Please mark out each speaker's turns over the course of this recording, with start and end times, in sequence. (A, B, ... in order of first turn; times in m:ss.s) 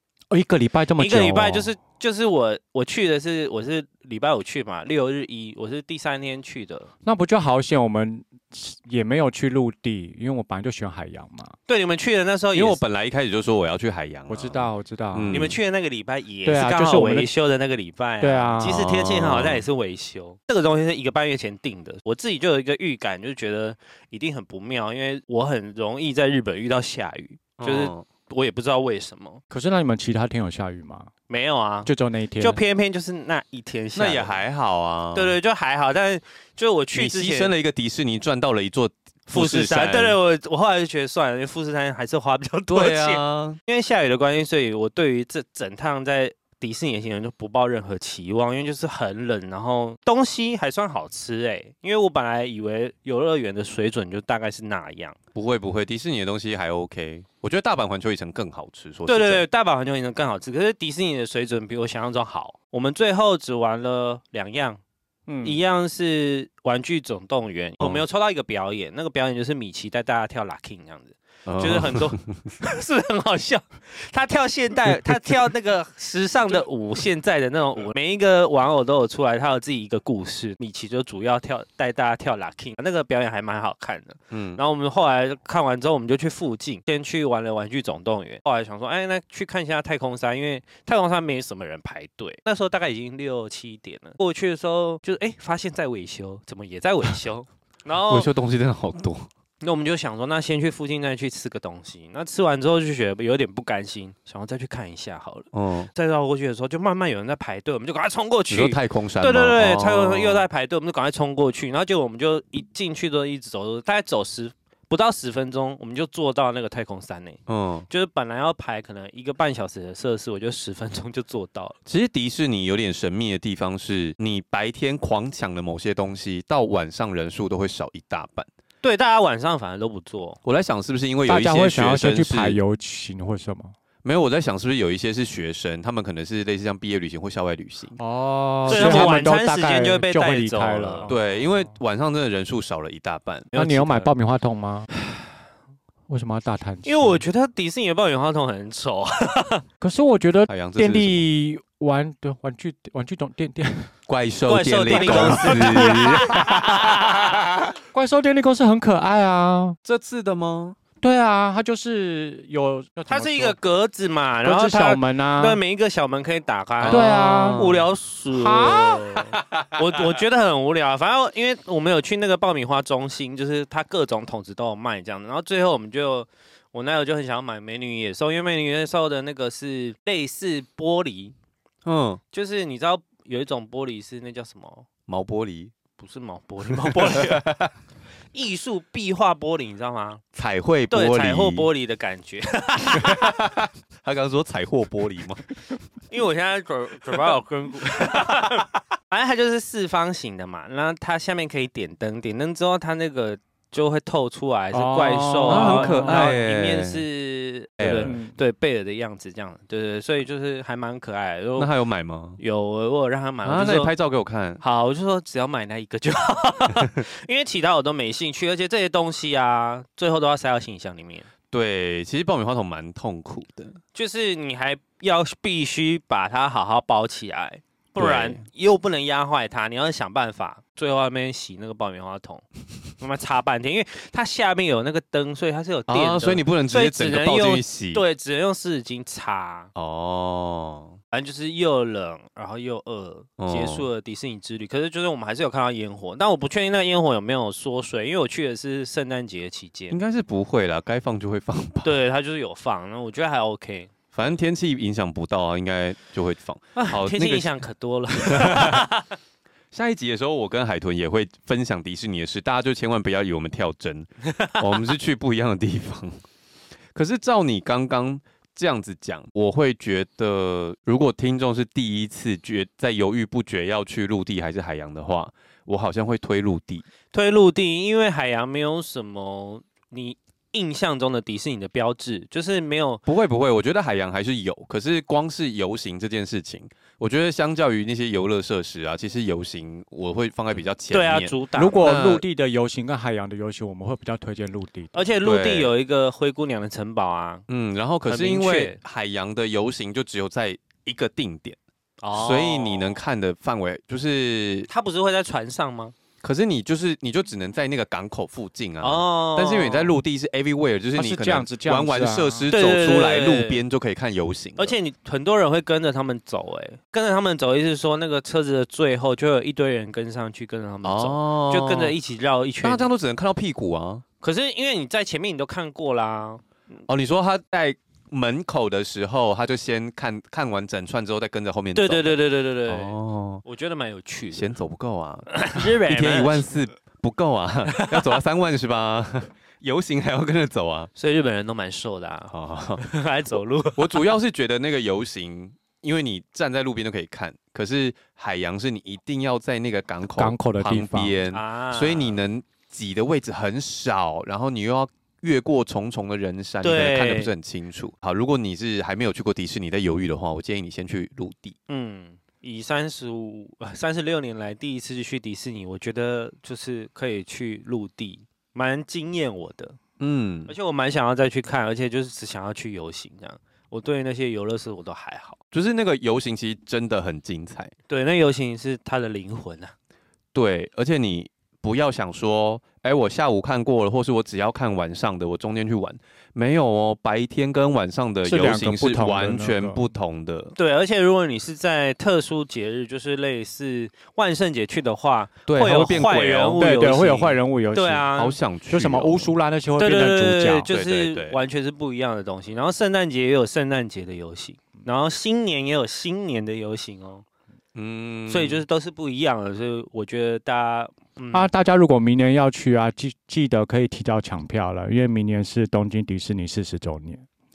0:00.3-0:01.7 A
0:01.0-0:06.9 B
0:07.0-0:11.6 A
0:11.7-0:12.8 B
0:12.5-0:15.6 C
0:14.3-0:15.4 A
0:15.3-0:29.4 B
0:16.4-0:17.3 A
0:18.2-0:18.8 A
0:18.6-0:19.6 C
0:27.6-0:28.0 C
0:29.5-0:31.1 A
0:31.3-0:34.4 B
0:31.8-0:32.6 A
0:33.9-0:35.4 C
0:35.1-0:37.5 B
0:36.9-0:40.2 C
0:39.3-0:55.2 B
0:42.7-0:43.6 C
0:55.3-0:59.4 C
0:59.1-1:04.8 B
1:05.3-1:05.6 A
1:05.4-1:38.3 B
1:11.4-1:12.5 C
1:24.3-1:24.6 C
1:38.1-1:39.3 C
1:39.6-2:01.8 B
1:45.5-1:45.9 C
1:48.5-1:50.4 C
1:57.5-1:57.9 C
2:01.8-2:08.5 C
2:08.8-2:10.4 B
2:10.4-2:12.6 C
2:11.2-2:13.7 A
2:14.0-2:18.0 C
2:18.0-2:21.5 A
2:18.6-2:19.2 C
2:18.7-2:21.1 B
2:21.1-2:24.1 C
2:23.5-2:24.9 A
2:26.1-2:27.2 A
2:26.8-2:29.6 B
2:29.8-2:33.9 A
2:30.5-2:31.2 C
2:34.1-2:37.7 C
2:34.5-2:37.4 B
2:34.9-2:36.9 A
2:37.9-2:39.8 A
2:39.8-2:40.8 C
2:41.0-2:43.6 A
2:43.1-3:01.3 B
2:44.4-2:45.6 A
2:46.8-2:47.8 C
2:46.9-2:49.1 A
3:01.8-3:02.2 C
3:02.3-3:04.9 B
3:05.1-3:05.7 C
3:06.0-3:07.4 B
3:06.7-3:07.7 C
3:08.3-3:10.2 B
3:10.3-3:11.7 C
3:10.9-3:13.4 B
3:12.9-3:15.4 C
3:16.1-3:31.7 B
3:24.7-3:26.4 A
3:25.4-3:27.0 C
3:27.8-3:28.1 C
3:28.0-3:28.3 A
3:31.6-3:32.4 C
3:32.4-3:33.9 B
3:33.4-3:34.6 C
3:34.6-3:41.3 B
3:41.5-3:43.8 C
3:43.9-3:52.4 B
3:48.0-3:48.4 C
3:53.0-3:59.7 B
3:55.9-3:58.0 C
3:59.8-4:01.0 C
4:01.1-4:10.0 B
4:03.4-4:03.8 C
4:09.9-4:11.9 C
4:11.8-4:13.9 B
4:14.1-4:17.5 C
4:16.8-4:19.1 B
4:18.2-4:18.8 C
4:19.7-4:26.2 C
4:26.9-4:36.8 C
4:37.1-4:43.0 B
4:43.0-4:52.2 C
4:50.9-4:52.0 B
4:51.5-4:55.1 A
4:54.9-4:57.4 B
4:55.2-4:55.7 C
4:57.5-5:01.6 C
4:58.0-4:58.8 B
5:02.0-5:03.0 B
5:02.1-5:04.7 C
5:04.7-5:05.9 B
5:06.2-5:14.8 C
5:08.8-5:10.0 B
5:10.9-5:12.5 A
5:12.5-5:13.6 B
5:14.6-5:22.9 B
5:20.8-5:21.9 C
5:22.6-5:24.0 C
5:24.2-5:26.4 B
5:26.9-5:33.4 C
5:31.8-5:34.5 B
5:34.3-5:40.9 C
5:35.3-5:36.5 B
5:37.7-5:38.1 B
5:40.9-5:44.1 B
5:42.3-5:42.8 C
5:43.8-6:01.6 C
5:50.2-5:51.1 A
5:51.3-5:52.2 B
5:56.6-5:57.3 B
6:01.7-6:09.8 B
6:10.0-6:10.5 C
6:10.5-6:15.4 B
6:15.5-6:17.7 C
6:17.9-6:19.7 B
6:20.3-6:30.6 C
6:28.2-6:29.8 A
6:30.6-6:38.3 B
6:35.5-6:36.6 C
6:36.6-6:38.1 A
6:38.2-6:39.3 C
6:38.7-6:40.7 A
6:39.8-6:47.2 B
6:40.7-6:41.4 C
6:47.7-6:48.6 C
6:48.3-6:51.5 B
6:51.3-6:57.2 A